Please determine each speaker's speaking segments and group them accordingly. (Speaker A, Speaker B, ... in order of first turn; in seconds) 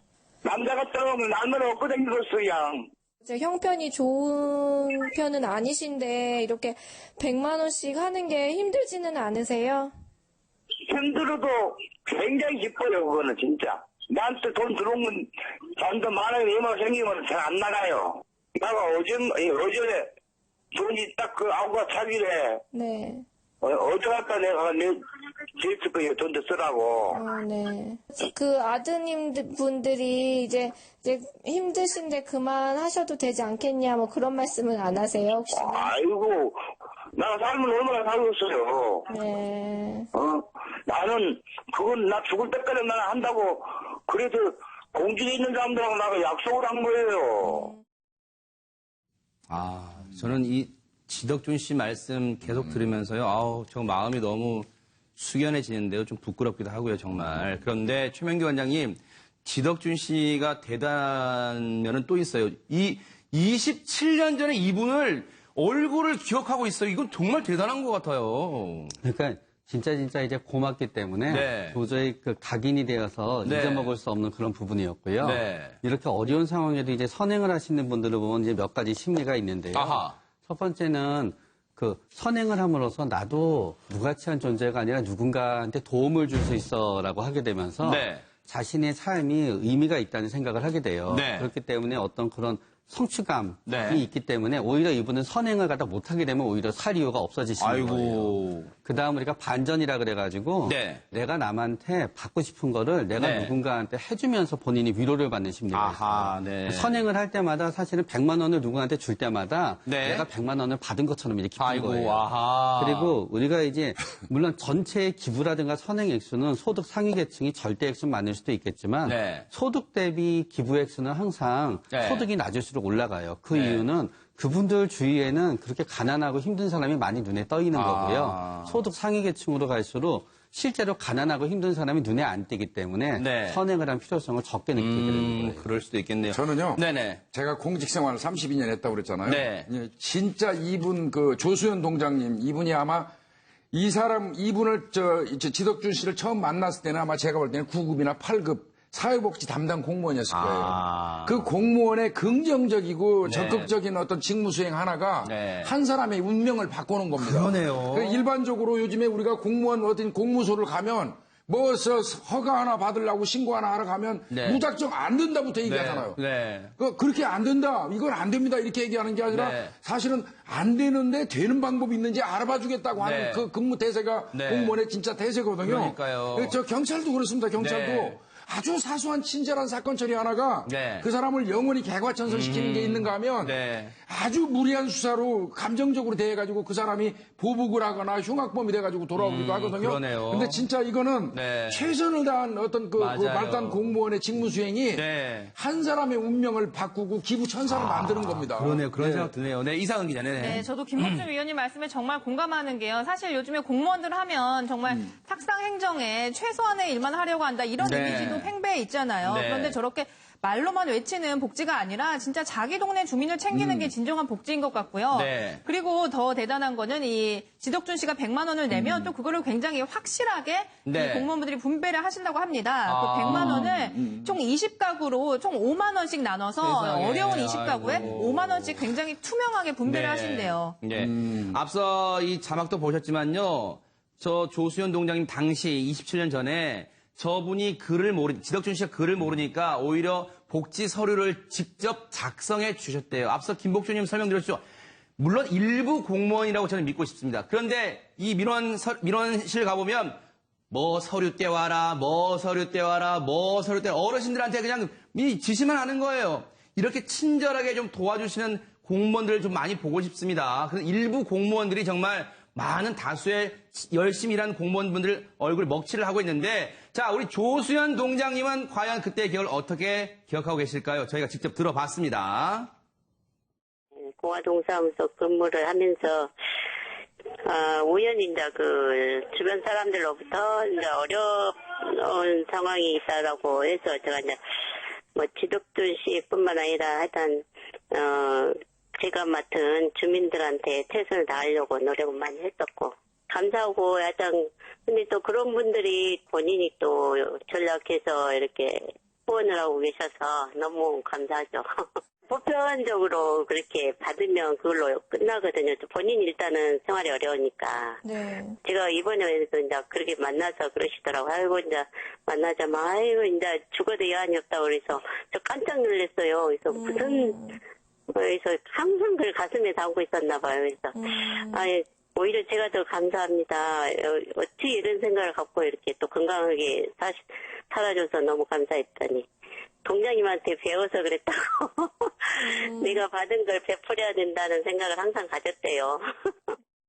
Speaker A: 0.4-2.9, 10.9-20.1, 20.7-22.6, 23.6-25.0, 25.6-27.2, 35.5-36.6, 37.1-39.1, 40.1-47.7
Speaker B: 3.2-9.9, 22.7-23.2, 27.1-35.9, 39.1-40.1, 308.0-308.6, 316.7-317.6, 320.9-321.6, 332.4-333.0
Speaker C: 49.5-69.0, 71.3-71.8, 73.4-73.9, 75.2-75.8, 79.7-80.2, 87.8-88.3, 91.1-91.5, 93.7-94.0, 97.6-98.7, 100.7-101.0, 103.2-103.5, 105.7-107.0, 109.9-110.3, 111.6-113.2, 119.1-119.5, 121.9-122.3, 123.5-123.8, 127.7-128.8, 133.2-133.6, 134.8-137.2, 139.2-139.7, 150.3-151.5, 153.2-153.7, 155.2-155.7, 157.2-158.2, 164.3-164.6, 165.6-166.7, 169.3-169.7, 173.0-173.5, 174.3-174.7, 175.6-176.6, 177.6-178.2, 180.7-181.1, 182.3-183.9, 189.2-190.7, 191.3-191.9, 193.0-193.8, 194.9-195.5, 197.7-201.3, 207.8-208.5, 209.2-209.8, 213.5-213.9, 215.1-215.6, 220.8-221.3, 222.9-223.8, 226.6-228.9, 229.9-244.6, 245.2-250.2, 250.7-272.7
Speaker D: 69.0-135.7
Speaker E: 136.3-143.1, 143.7-166.2, 166.8-199.3, 223.3-224.3, 231.0-231.6
Speaker F: 200.4-230.8
Speaker G: 274.2-276.3, 277.4-284.4, 285.1-308.0, 308.6-317.4, 318.1-329.3, 329.8-336.1